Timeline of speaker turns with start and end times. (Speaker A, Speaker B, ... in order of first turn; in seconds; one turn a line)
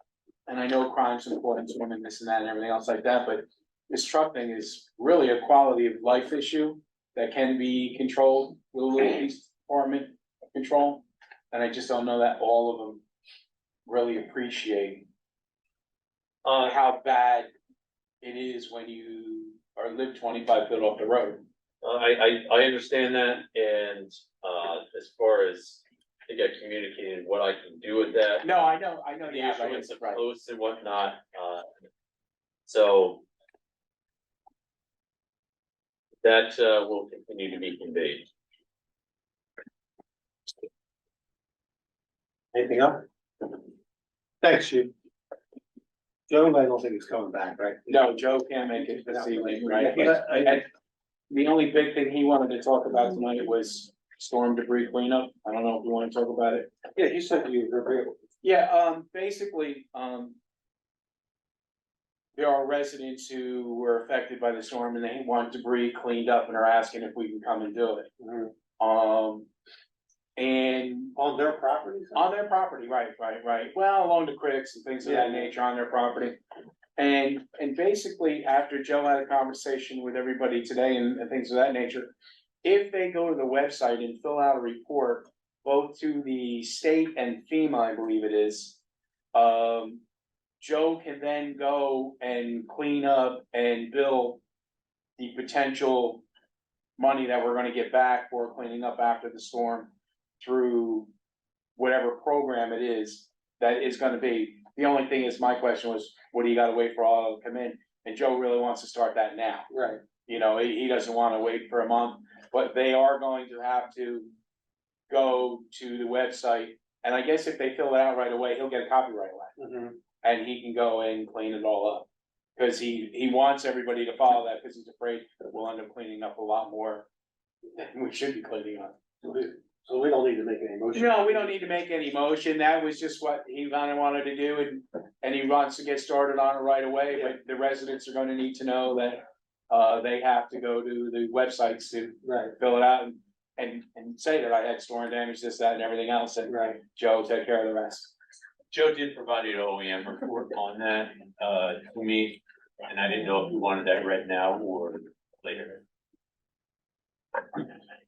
Speaker A: 0.5-13.0
Speaker A: 13.8-15.1
Speaker A: 16.4-17.5
Speaker A: 18.2-21.4
Speaker B: 21.8-28.5
Speaker A: 28.4-30.2
Speaker B: 29.2-31.6
Speaker B: 32.7-33.2
Speaker B: 36.2-38.3
Speaker C: 42.5-43.0
Speaker C: 44.4-44.9
Speaker C: 46.3-47.9
Speaker A: 47.9-50.6
Speaker C: 48.8-50.6
Speaker A: 51.3-56.7
Speaker C: 57.0-58.1
Speaker A: 58.4-60.4
Speaker A: 62.3-68.1
Speaker C: 68.2-68.5
Speaker A: 68.8-69.5
Speaker A: 70.3-71.1
Speaker C: 71.2-72.2
Speaker A: 72.1-76.4
Speaker C: 75.0-75.5
Speaker A: 77.0-88.8
Speaker A: 89.3-90.0
Speaker A: 90.6-94.4
Speaker A: 95.2-96.2
Speaker A: 97.0-101.1
Speaker A: 101.8-109.7
Speaker C: 109.7-110.0
Speaker A: 110.2-114.3
Speaker A: 115.1-119.5
Speaker C: 119.6-120.0
Speaker A: 120.2-127.1
Speaker A: 127.7-128.9
Speaker C: 129.2-131.6
Speaker A: 130.9-148.1
Speaker C: 142.2-142.5
Speaker C: 146.4-146.8
Speaker B: 148.7-155.8